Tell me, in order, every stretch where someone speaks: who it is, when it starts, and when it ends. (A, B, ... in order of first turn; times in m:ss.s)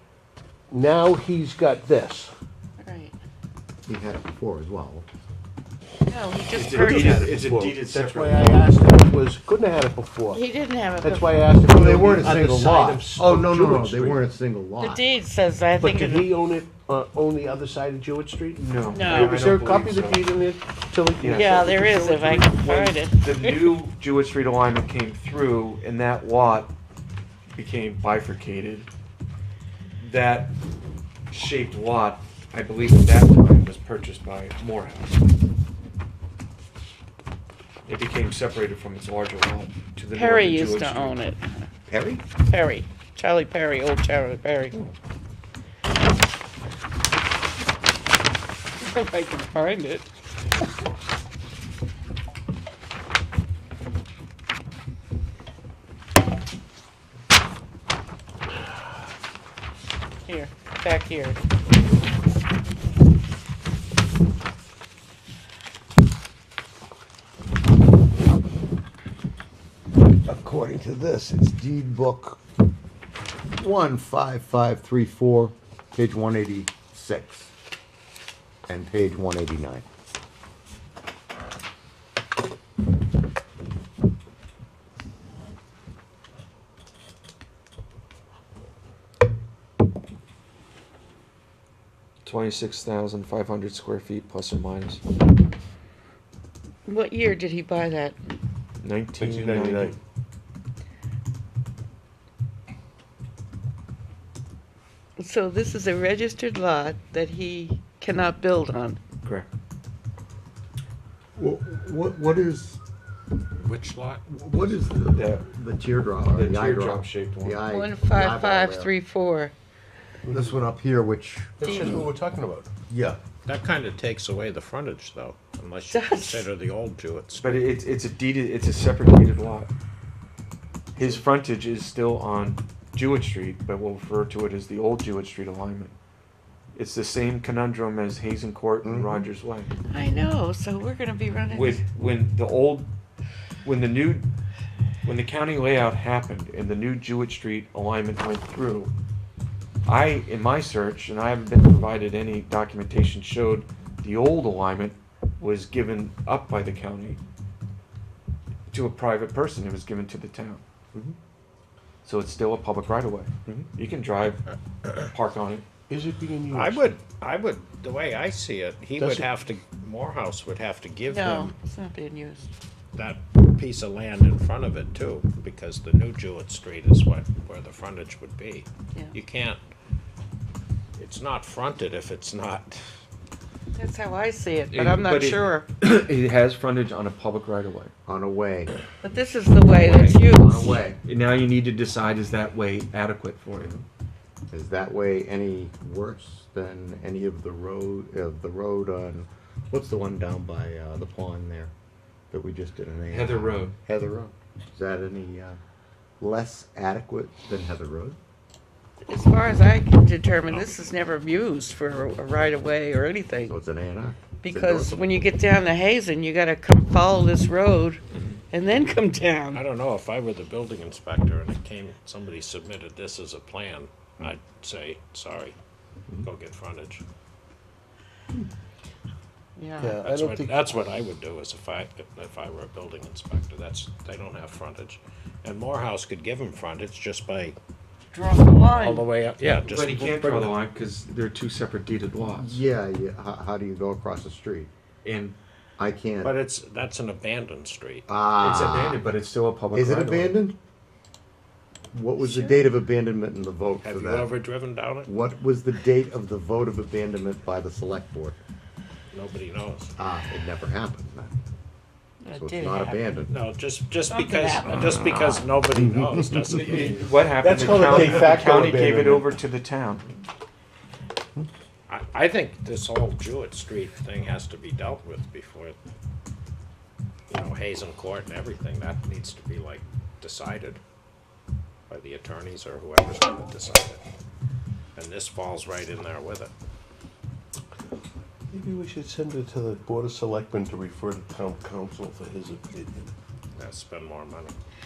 0:00.7-0:02.3 A
0:02.8-0:03.2 B
0:03.9-0:05.1 C
0:06.1-0:07.3 B
0:06.5-0:08.8 D
0:06.7-0:10.4 A
0:10.3-0:11.4 B
0:11.0-0:14.2 A
0:11.6-0:15.0 C
0:14.8-0:16.3 B
0:15.8-0:22.5 A
0:18.6-0:20.2 D
0:18.9-0:19.4 B
0:21.2-0:21.5 D
0:21.3-0:23.8 B
0:22.5-0:26.7 D
0:27.5-0:28.9 D
0:30.0-0:30.5 D
0:31.3-0:35.2 D
0:37.8-0:41.2 D
0:40.1-0:41.6 B
0:41.9-0:42.2 C
0:42.4-0:44.8 B
0:48.8-0:50.1 B
1:00.2-1:01.4 B
1:10.2-1:12.4 C
1:13.5-1:17.5 C
1:18.7-1:19.8 C
1:32.2-1:35.0 D
1:36.8-1:38.2 B
1:38.8-1:39.9 D
1:39.2-1:40.0 A
1:45.2-1:49.1 B
1:49.1-1:49.5 D
1:51.4-1:52.8 C
1:53.6-1:54.2 E
1:54.3-1:58.9 C
1:55.1-1:55.4 D
1:56.3-1:57.6 D
1:57.7-1:59.5 B
2:00.2-2:00.6 A
2:00.3-2:02.1 C
2:01.6-2:02.7 A
2:01.6-2:02.0 B
2:02.9-2:03.2 C
2:03.4-2:07.6 E
2:05.9-2:06.5 B
2:07.4-2:09.7 D
2:11.0-2:15.9 D
2:16.8-2:19.7 D
2:18.8-2:19.2 C
2:19.8-2:21.8 B
2:21.5-2:22.9 D
2:23.6-2:24.3 D
2:25.0-2:28.9 D
2:29.8-2:37.2 D
2:38.7-2:40.6 D
2:42.0-2:45.6 D
2:45.9-2:47.0 A
2:46.5-2:51.5 E
2:49.0-2:49.3 A
2:51.1-2:52.5 B
2:52.9-2:59.6 E
3:01.0-3:02.9 E
3:03.7-3:05.7 B
3:04.7-3:07.9 D
3:08.0-3:08.7 C
3:09.0-3:10.9 B
3:09.8-3:11.0 C
3:11.0-3:13.7 D
3:13.6-3:13.8 C
3:14.5-3:21.7 C
3:22.3-3:25.6 C
3:23.1-3:23.7 D
3:26.2-3:28.2 C
3:29.1-3:33.6 B
3:30.5-3:30.9 E
3:33.5-3:35.1 C
3:34.4-3:39.6 B
3:39.5-3:45.6 E
3:46.2-3:47.0 E
3:49.6-3:50.0 B
3:49.8-3:51.0 A
3:50.0-3:57.6 E
3:58.1-3:59.1 B
3:58.4-4:00.5 E
3:59.5-4:02.6 D
4:02.2-4:04.7 C
4:05.0-4:05.4 D
4:05.8-4:06.3 C
4:06.2-4:08.0 E
4:08.1-4:09.0 C
4:08.4-4:10.4 D
4:09.7-4:10.6 C
4:11.9-4:14.3 C
4:12.2-4:12.6 B
4:13.8-4:15.1 E
4:15.0-4:18.4 C
4:19.1-4:19.9 E
4:20.0-4:21.3 C
4:22.2-4:23.1 B
4:22.3-4:23.4 C
4:23.3-4:27.0 E
4:24.1-4:25.4 B
4:24.9-4:26.9 C
4:26.5-4:30.1 D
4:27.4-4:29.3 A
4:31.9-4:35.8 E
4:37.3-4:40.8 E
4:41.9-4:44.0 E
4:45.0-4:46.5 E
4:48.5-4:53.1 A
4:53.6-4:54.6 E